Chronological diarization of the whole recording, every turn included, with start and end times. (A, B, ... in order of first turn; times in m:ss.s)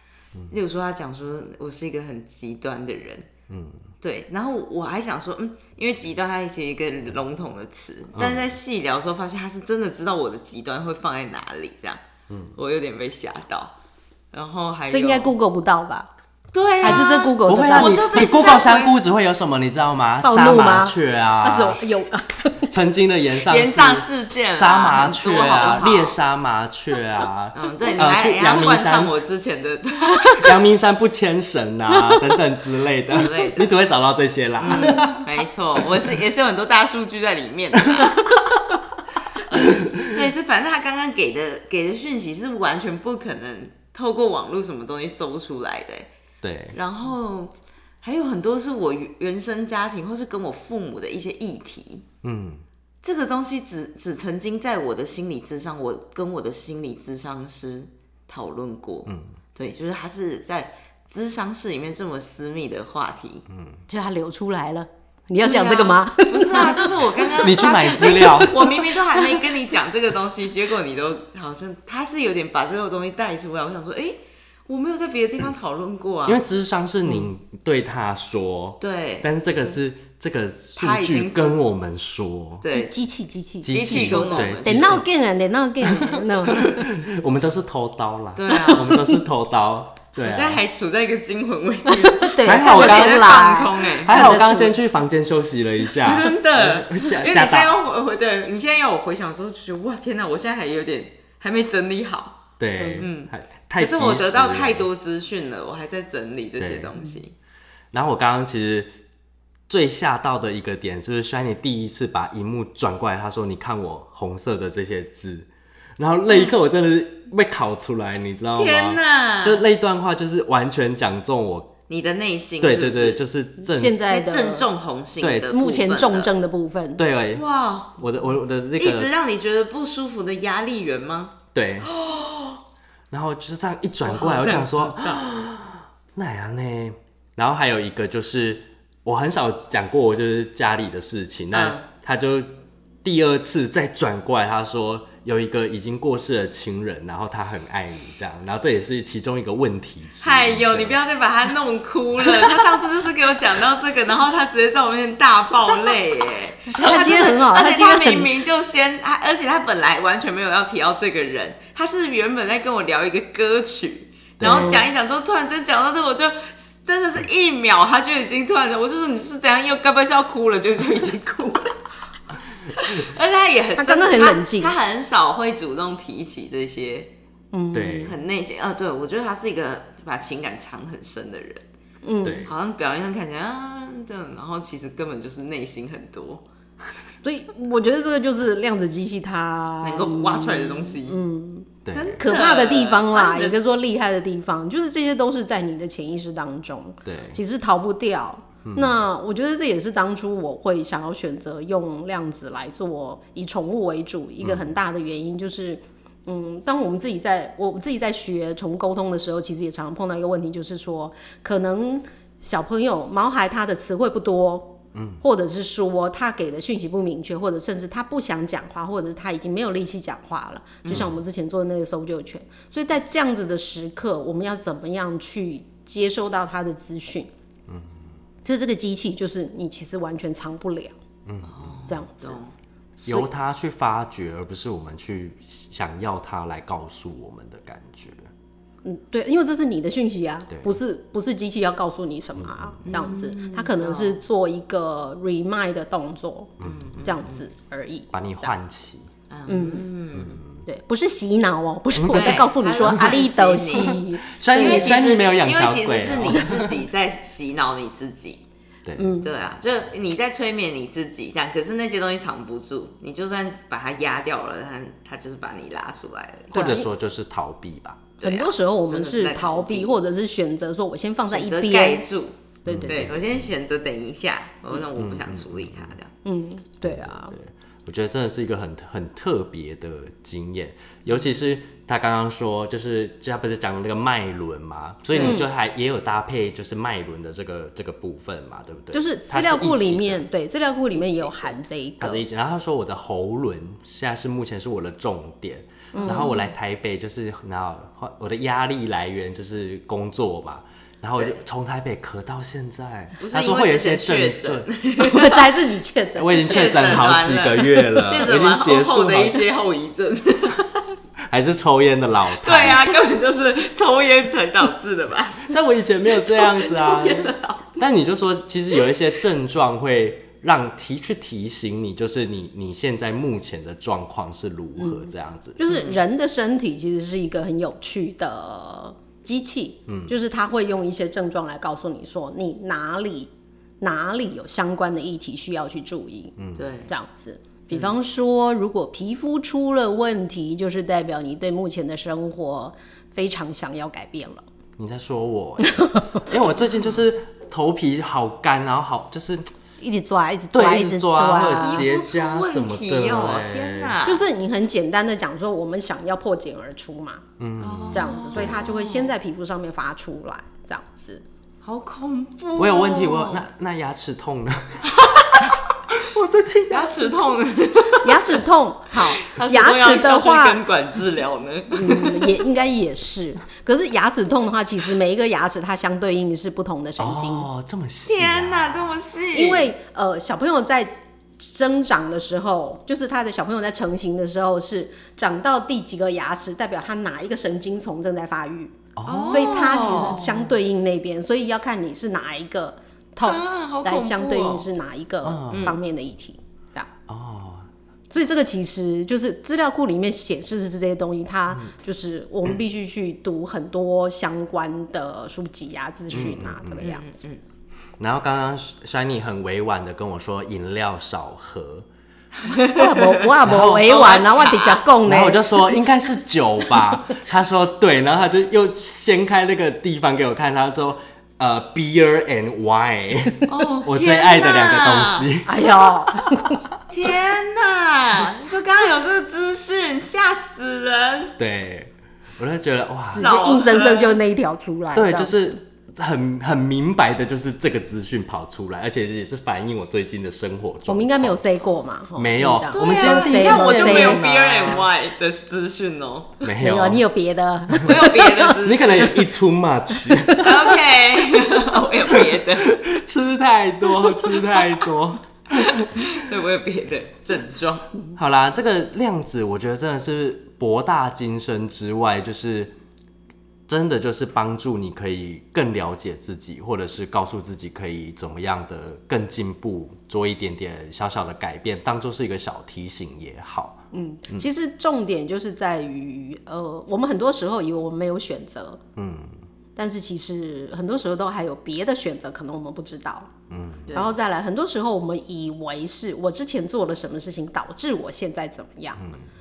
0:00.5-0:03.3 A
0:03.5-0:03.8 B
0:04.0-0:12.0 A
0:08.1-0:08.6 B
0:12.3-0:12.5 B
0:12.6-0:13.7 A
0:14.3-0:15.3 A
0:14.9-0:16.1 C
0:16.5-0:19.0 A
0:16.8-0:18.3 C
0:16.8-0:21.8 B
0:20.2-0:22.7 C
0:22.6-0:29.1 B
0:23.4-0:26.2 A
0:27.5-0:30.6 A
0:30.3-0:35.8 B
0:33.1-0:33.7 A
0:34.6-0:38.4 A
0:39.5-0:40.2 B
0:39.5-0:46.1 A
0:46.4-0:46.8 B
0:46.7-0:52.0 A
0:52.2-0:52.6 B
0:53.0-1:03.4 A
1:03.5-1:03.8 B
1:03.9-1:06.9 C
1:05.4-1:16.4 A
1:07.3-1:08.7 B
1:08.0-1:09.4 C
1:16.2-1:22.6 B
1:18.8-1:19.3 A
1:20.8-1:21.6 A
1:22.6-1:22.9 A
1:22.7-1:26.9 C
1:23.6-1:25.0 B
1:23.7-1:25.0 A
1:25.8-1:30.6 B
1:28.4-1:29.2 A
1:30.2-1:34.5 A
1:31.9-1:34.8 C
1:32.4-1:33.5 B
1:34.0-1:37.8 B
1:36.0-1:47.3 A
1:42.6-1:44.9 B
1:46.6-1:46.9 B
1:47.9-1:49.0 B
1:49.7-2:01.7 B
1:58.6-1:59.6 A
2:01.9-2:03.2 A
2:02.6-2:04.0 B
2:03.6-2:04.7 C
2:04.0-2:06.3 A
2:05.2-2:05.6 B
2:05.5-2:07.0 C
2:07.0-2:07.4 B
2:07.3-2:08.1 A
2:08.0-2:09.1 B
2:08.8-2:12.6 A
2:11.5-2:11.9 B
2:13.1-2:22.5 B
2:14.0-2:15.3 A
2:21.5-2:21.8 A
2:23.0-2:31.0 B
2:30.2-2:51.8 A
2:36.7-2:38.3 C
2:44.4-2:44.9 B
2:44.5-2:44.8 C
2:52.7-2:57.1 A
2:53.8-2:54.7 C
2:57.5-2:58.1 C
2:57.7-2:58.1 B
2:57.9-3:01.6 A
3:02.0-3:02.4 C
3:02.2-3:02.5 B
3:02.4-3:06.4 A
3:07.2-3:47.3 C
3:09.8-3:11.2 A
3:11.8-3:12.2 B
3:11.9-3:13.6 A
3:17.0-3:17.4 B
3:18.6-3:19.0 B
3:34.9-3:35.2 B
3:40.8-3:41.1 A
3:40.9-3:41.2 B
3:47.7-3:48.0 B
3:48.4-3:50.9 C
3:51.2-3:51.8 B
3:51.4-3:52.5 A
3:51.9-3:52.4 C
3:53.0-3:53.3 C
3:53.0-3:58.3 B
3:58.8-4:08.5 C
4:00.5-4:00.8 B
4:02.4-4:03.1 B
4:02.8-4:04.2 A
4:06.6-4:07.0 B
4:06.6-4:07.4 A
4:08.1-4:09.1 B
4:09.3-4:10.4 A
4:09.5-4:09.9 C
4:10.1-4:10.6 B
4:10.6-4:15.0 C
4:11.9-4:13.2 B
4:12.1-4:14.0 A
4:13.7-4:16.8 B
4:14.5-4:18.4 A
4:18.8-4:19.1 B
4:19.0-4:19.3 C
4:19.2-4:26.7 A
4:26.5-4:26.9 C
4:26.5-4:28.1 B
4:28.2-4:30.0 A
4:28.2-4:32.0 C
4:31.3-4:36.1 A
4:32.6-4:33.1 C
4:32.7-4:33.4 B
4:35.0-4:35.9 B
4:36.2-4:37.3 C
4:36.8-4:50.2 B
4:45.1-4:45.4 A
4:45.2-4:45.5 C
4:48.9-4:52.2 C
4:50.9-4:51.6 A
4:52.0-5:04.7 B
4:55.9-4:56.3 C
4:56.0-4:56.4 A
5:03.2-5:05.6 A
5:05.0-5:07.0 C
5:06.2-5:09.5 B
5:06.4-5:10.9 A
5:11.3-5:12.9 B
5:12.4-5:15.6 A
5:15.4-5:25.6 B
5:16.1-5:17.6 A
5:24.8-5:36.4 C
5:25.7-5:26.0 A
5:36.4-5:36.7 B
5:36.6-5:36.9 A
5:36.9-5:44.4 C
5:44.8-5:49.5 B
5:45.8-5:46.2 C
5:49.8-5:51.8 C
5:50.5-5:54.0 B
5:51.5-5:54.2 A
5:54.0-5:57.2 C
5:57.4-5:58.6 B
5:57.6-5:59.1 A
5:57.9-6:01.2 C
6:01.6-6:03.4 A
6:02.6-6:07.1 B
6:05.0-6:05.2 A
6:06.7-6:08.4 A
6:08.0-6:10.6 C
6:09.0-6:12.3 A
6:11.7-6:17.5 C
6:17.0-6:19.0 B
6:18.0-6:19.7 A
6:19.3-6:28.7 C
6:29.0-6:30.4 B
6:29.0-6:30.5 A
6:29.3-6:36.9 C
6:33.2-6:34.7 A
6:35.2-6:35.8 B
6:35.5-6:35.8 A
6:37.1-6:37.7 B
6:38.1-6:47.1 C
6:46.1-6:46.9 B
6:46.8-6:47.4 A
6:48.0-6:51.9 B
6:52.4-6:53.2 A
6:52.5-6:55.8 C
6:53.4-6:54.1 B
6:53.8-6:54.8 A
6:55.0-7:05.7 B
7:03.5-7:05.3 A
7:05.4-7:06.6 C
7:06.9-7:11.4 A
7:11.4-7:13.3 B
7:13.0-7:15.3 C
7:13.2-7:14.2 A
7:14.9-7:21.4 B
7:20.9-7:24.2 C
7:22.2-7:24.9 B
7:22.7-7:26.4 A
7:26.4-7:27.0 B
7:26.6-7:28.5 C
7:27.8-7:29.3 A
7:28.6-7:30.8 B
7:30.3-7:32.8 A
7:32.1-7:36.1 B
7:35.6-7:37.9 A
7:38.2-7:42.7 B
7:43.7-7:54.4 B
7:53.9-7:58.8 C
7:59.0-7:59.4 B
7:59.8-8:03.3 C
8:03.5-8:04.0 B
8:03.9-8:04.1 A
8:03.9-8:09.0 C